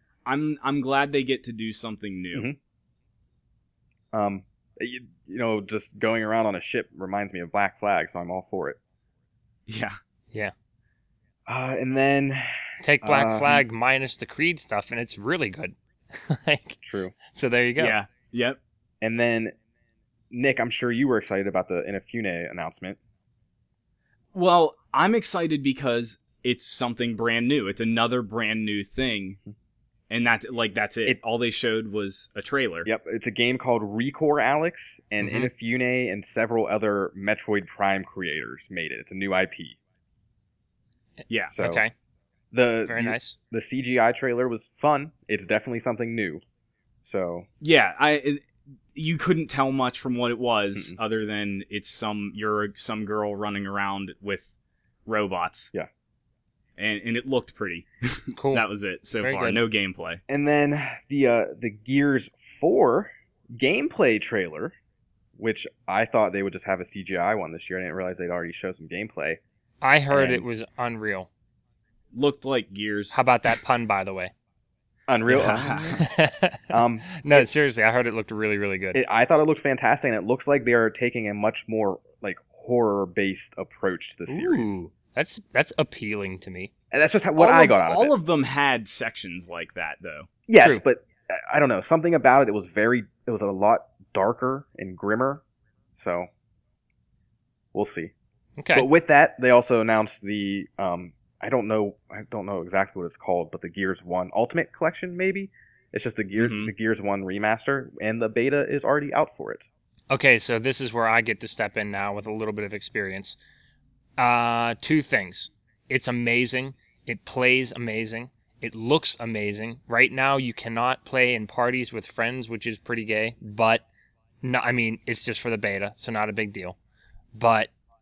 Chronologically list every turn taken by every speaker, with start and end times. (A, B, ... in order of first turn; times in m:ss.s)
0:00.2-0:02.5 A
0:04.1-0:08.8 B
0:09.7-0:10.0 A
0:11.5-0:13.6 B
0:12.8-0:18.0 C
0:16.8-0:17.2 B
0:17.8-0:18.6 A
0:19.0-0:19.5 B
0:20.3-0:23.0 B
0:24.3-0:29.4 A
0:30.1-0:32.9 A
0:32.8-0:39.8 B
0:35.2-0:35.5 C
0:41.3-0:41.6 A
0:41.5-0:41.8 B
0:41.6-0:41.9 C
0:42.5-0:46.4 B
0:42.9-0:43.4 C
0:47.0-0:47.5 B
0:47.6-0:54.5 A
0:55.1-0:55.7 A
0:56.8-1:00.2 A
0:58.4-0:58.6 C
0:59.2-0:59.6 C
1:00.3-1:04.7 B
1:05.4-1:09.4 B
1:09.8-1:11.3 C
1:10.1-1:10.5 B
1:12.1-1:13.2 A
1:13.1-1:14.3 C
1:15.1-1:16.0 B
1:15.3-1:16.0 A
1:16.0-1:19.0 C
1:16.7-1:17.5 B
1:18.9-1:24.8 B
1:24.3-1:26.7 C
1:26.9-1:28.1 B
1:27.4-1:30.3 A
1:30.5-1:35.4 B
1:35.9-1:36.3 B
1:37.7-1:38.1 B
1:38.6-1:38.9 C
1:38.7-1:49.7 B
1:46.4-1:46.7 A
1:50.1-1:53.4 C
1:54.2-2:03.8 C
2:04.4-2:06.8 C
2:07.3-2:07.7 C